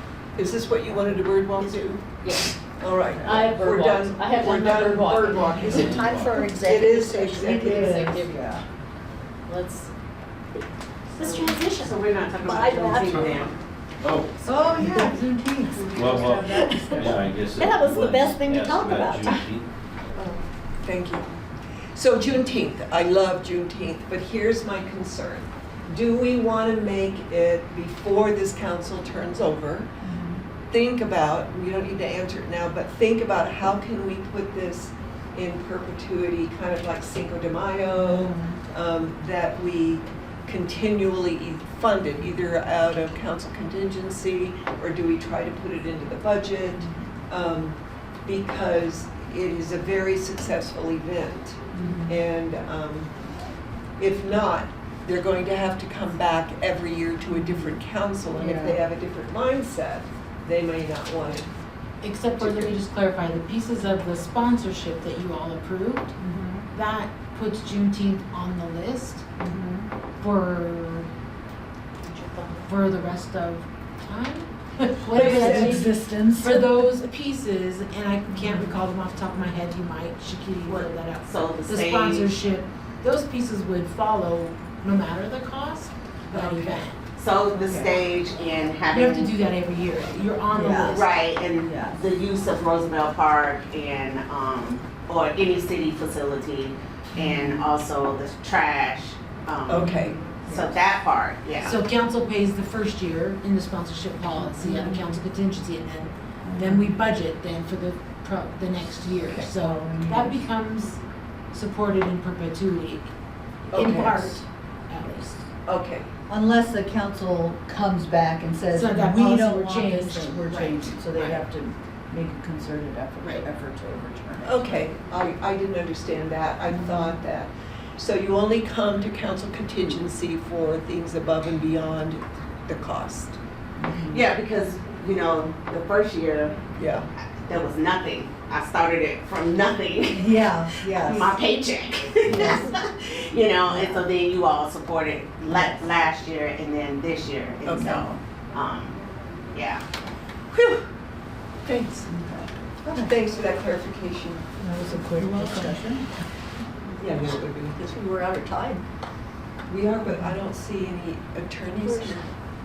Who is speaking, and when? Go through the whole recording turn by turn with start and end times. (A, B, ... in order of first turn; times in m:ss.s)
0:00.4-0:02.0 A
0:02.2-0:02.5 B
0:02.8-0:08.2 A
0:03.2-0:05.9 B
0:05.6-0:07.8 C
0:05.7-0:06.4 D
0:07.4-0:08.6 B
0:07.5-0:08.6 E
0:09.5-0:09.9 B
0:11.2-0:12.0 B
0:11.2-0:13.6 F
0:12.4-0:13.3 C
0:14.0-0:14.4 D
0:14.5-0:17.1 E
0:15.9-0:19.7 D
0:16.5-0:17.0 B
0:17.6-0:19.4 B
0:20.8-0:21.3 A
0:22.0-0:29.9 A
0:30.1-0:30.4 E
0:30.7-0:53.1 A
0:38.0-0:38.5 E
0:51.8-0:52.2 E
0:54.0-1:01.5 A
0:58.4-0:58.8 E
1:02.0-1:06.2 G
1:02.4-1:02.8 A
1:06.2-1:06.6 E
1:06.7-1:09.3 G
1:09.4-1:09.8 E
1:10.2-1:11.1 G
1:12.0-1:12.7 B
1:12.7-1:27.0 G
1:15.1-1:15.9 A
1:15.2-1:16.9 E
1:20.7-1:22.3 F
1:26.3-1:26.7 E
1:27.2-1:29.4 F
1:28.9-1:31.1 G
1:30.5-1:31.0 E
1:30.9-1:41.8 F
1:31.6-1:32.0 E
1:37.2-1:37.6 E
1:39.7-1:40.2 A
1:40.5-1:40.8 E
1:41.6-1:51.0 G
1:44.6-1:45.0 E
1:46.5-1:46.8 E
1:49.2-1:49.5 A
1:49.4-1:50.4 E
1:51.5-1:53.1 G
1:53.7-1:55.4 G
1:53.7-1:54.4 A
1:55.6-1:56.1 A
1:56.3-2:04.8 E
1:58.7-2:01.4 G
2:04.4-2:13.4 A
2:13.8-2:14.2 E
2:14.1-2:16.6 F
2:16.8-2:17.1 A
2:17.4-2:29.0 F
2:20.1-2:21.4 E
2:22.3-2:22.7 E
2:23.7-2:24.0 E
2:27.6-2:28.1 A
2:29.5-2:29.8 F
2:31.6-2:32.1 A
2:32.1-2:33.2 E
2:33.0-2:35.7 A
2:34.6-2:36.1 E
2:37.0-2:37.8 A
2:37.0-2:38.8 C
2:39.7-2:42.3 A